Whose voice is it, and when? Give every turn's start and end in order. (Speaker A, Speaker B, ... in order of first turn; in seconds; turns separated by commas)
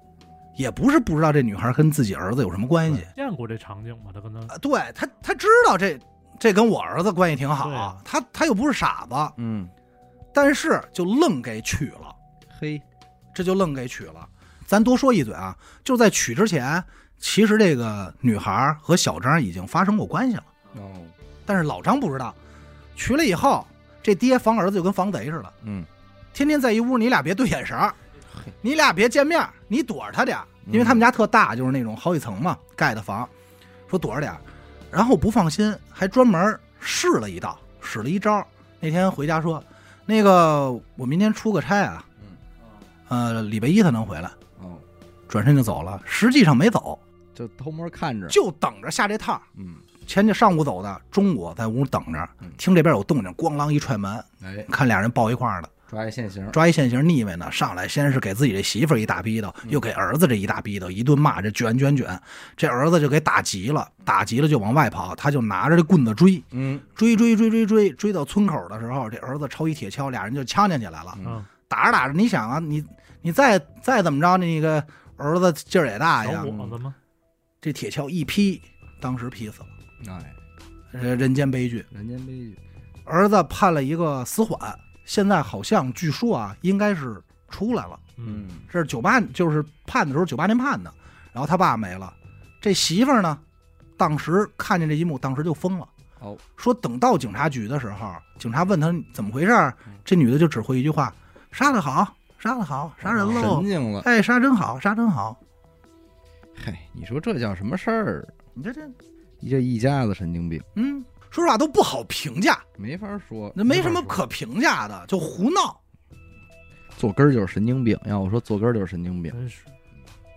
Speaker A: 0.6-3.1, Speaker B: 3.0-4.5, Speaker A: 4.5-9.3, Speaker B: 7.6-8.0, Speaker C: 9.4-9.7, Speaker A: 10.3-12.2, Speaker C: 12.5-12.8, Speaker A: 13.3-20.5, Speaker C: 20.7-21.1, Speaker A: 21.5-22.4, Speaker A: 22.9-25.5, Speaker C: 25.6-25.9, Speaker A: 26.3-28.0, Speaker A: 28.6-33.3, Speaker C: 30.7-31.1, Speaker A: 33.9-42.1, Speaker A: 43.1-44.4, Speaker C: 44.6-44.9, Speaker A: 45.3-47.0, Speaker C: 47.3-48.4, Speaker A: 48.3-49.5, Speaker C: 49.6-49.8, Speaker A: 50.0-55.7, Speaker C: 54.4-54.7, Speaker C: 55.9-56.6, Speaker A: 56.5-76.8, Speaker C: 66.5-66.9, Speaker C: 71.1-71.4, Speaker B: 71.2-71.5, Speaker B: 76.2-77.0, Speaker A: 77.6-79.7, Speaker C: 80.0-80.4, Speaker A: 80.9-81.9, Speaker C: 81.9-82.6, Speaker A: 83.1-88.0, Speaker B: 88.2-88.5, Speaker C: 88.2-88.7, Speaker A: 88.7-93.4, Speaker A: 94.0-95.9, Speaker A: 96.6-105.4, Speaker C: 103.0-104.1, Speaker C: 106.6-108.3, Speaker A: 108.5-109.0, Speaker C: 109.4-110.7, Speaker A: 110.8-112.7, Speaker C: 112.8-114.2, Speaker A: 113.6-115.8, Speaker C: 117.0-119.4, Speaker B: 119.3-119.7